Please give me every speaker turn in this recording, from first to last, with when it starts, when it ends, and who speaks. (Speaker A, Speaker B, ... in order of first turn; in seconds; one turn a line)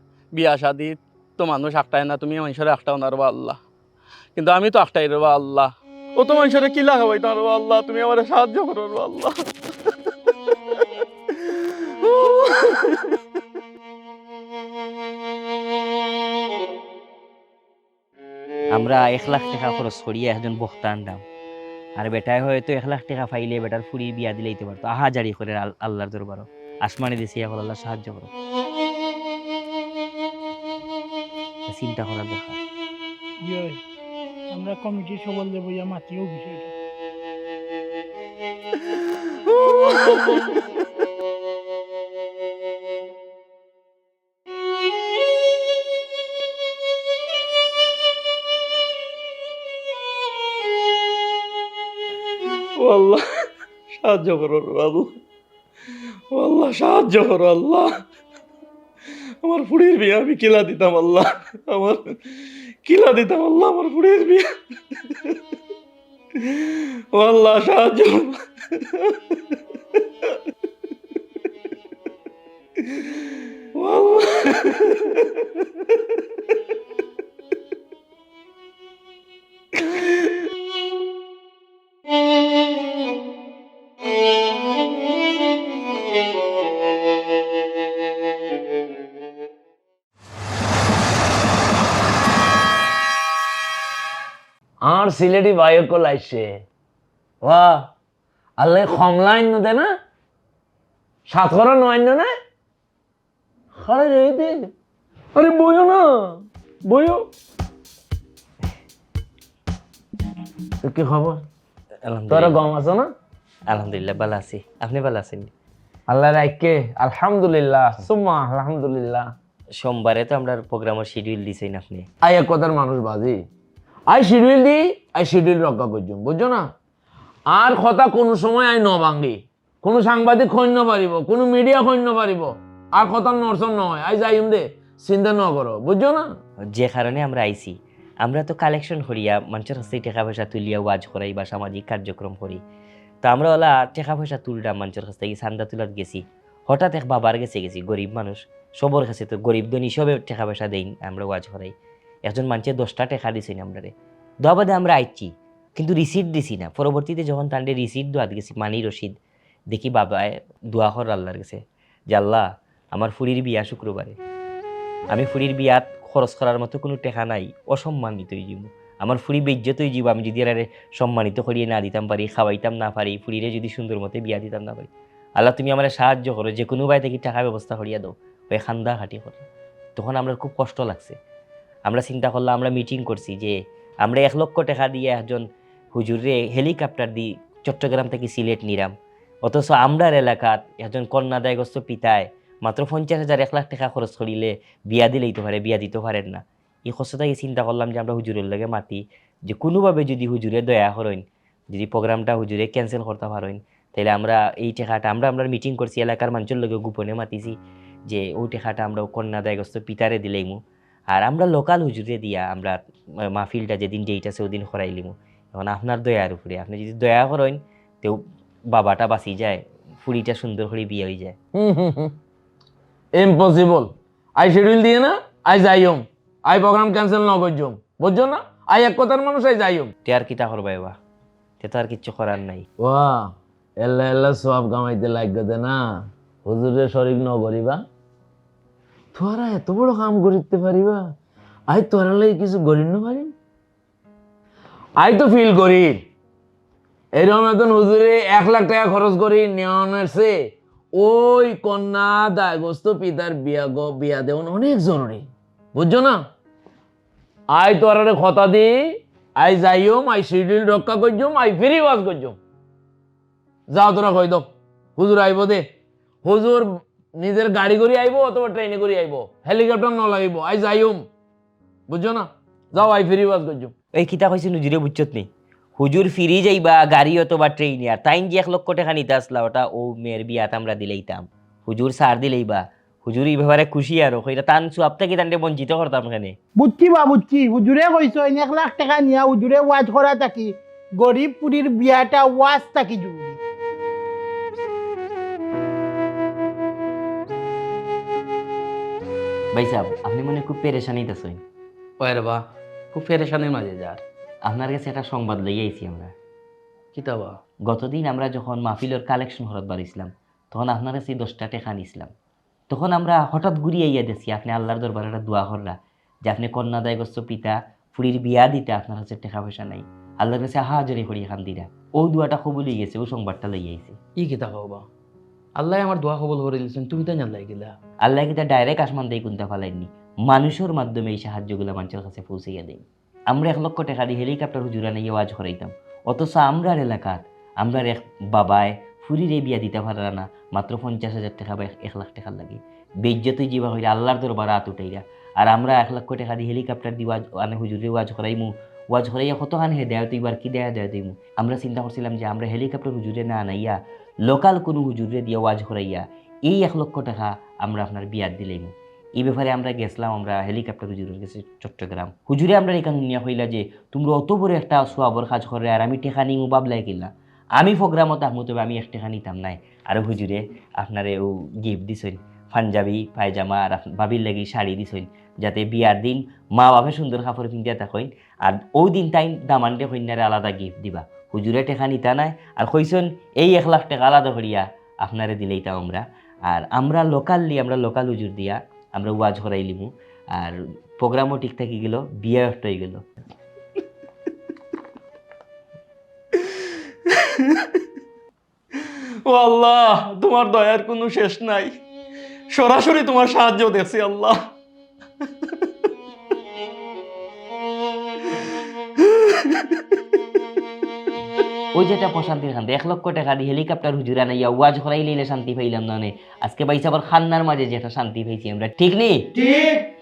Speaker A: 0.3-3.6
Speaker A: 4.3-9.4
Speaker A: 12.0-13.0
Speaker B: 18.7-21.2
Speaker B: 22.0-28.3
Speaker B: 31.7-32.6
Speaker C: 33.4-33.8
Speaker C: 34.5-36.7
Speaker A: 52.8-53.2
Speaker A: 53.9-55.1
Speaker A: 56.3-57.9
Speaker A: 59.4-62.1
Speaker A: 62.8-64.4
Speaker A: 66.4-68.4
Speaker A: 73.8-75.2
Speaker D: 94.8-96.6
Speaker D: 97.4-97.9
Speaker D: 98.6-99.9
Speaker D: 101.3-102.3
Speaker D: 103.8-104.7
Speaker D: 105.3-107.2
Speaker D: 110.8-111.4
Speaker B: 112.0-112.6
Speaker D: 112.3-113.1
Speaker B: 113.7-115.5
Speaker D: 116.1-119.3
Speaker B: 119.8-122.0
Speaker D: 122.2-123.4
Speaker D: 124.1-126.7
Speaker D: 127.5-136.2
Speaker B: 136.6-142.6
Speaker B: 143.2-151.7
Speaker B: 152.3-153.9
Speaker B: 154.4-159.1
Speaker B: 159.7-164.2
Speaker B: 165.1-179.4
Speaker B: 179.9-181.2
Speaker B: 181.9-188.9
Speaker B: 189.4-207.5
Speaker B: 208.1-210.6
Speaker B: 211.1-212.8
Speaker B: 213.3-221.3
Speaker D: 221.5-222.1
Speaker D: 223.2-229.9
Speaker B: 230.1-230.9
Speaker B: 231.6-232.6
Speaker D: 232.8-237.8
Speaker D: 239.1-241.0
Speaker D: 241.7-243.3
Speaker D: 245.0-246.0
Speaker D: 247.2-250.3
Speaker D: 250.9-256.2
Speaker D: 257.5-258.7
Speaker D: 259.4-262.4
Speaker D: 263.7-265.7
Speaker D: 266.2-271.1
Speaker D: 271.9-273.7
Speaker B: 273.9-286.4
Speaker C: 286.6-293.4
Speaker B: 299.5-301.4
Speaker A: 302.0-304.0
Speaker B: 304.4-306.1
Speaker A: 306.9-307.4
Speaker B: 307.7-312.1
Speaker B: 312.7-324.0
Speaker A: 324.2-324.8
Speaker A: 325.6-327.7
Speaker B: 328.0-393.0
Speaker A: 397.1-397.6
Speaker A: 399.3-401.7
Speaker A: 402.5-404.4
Speaker A: 409.4-409.6
Speaker B: 411.8-419.3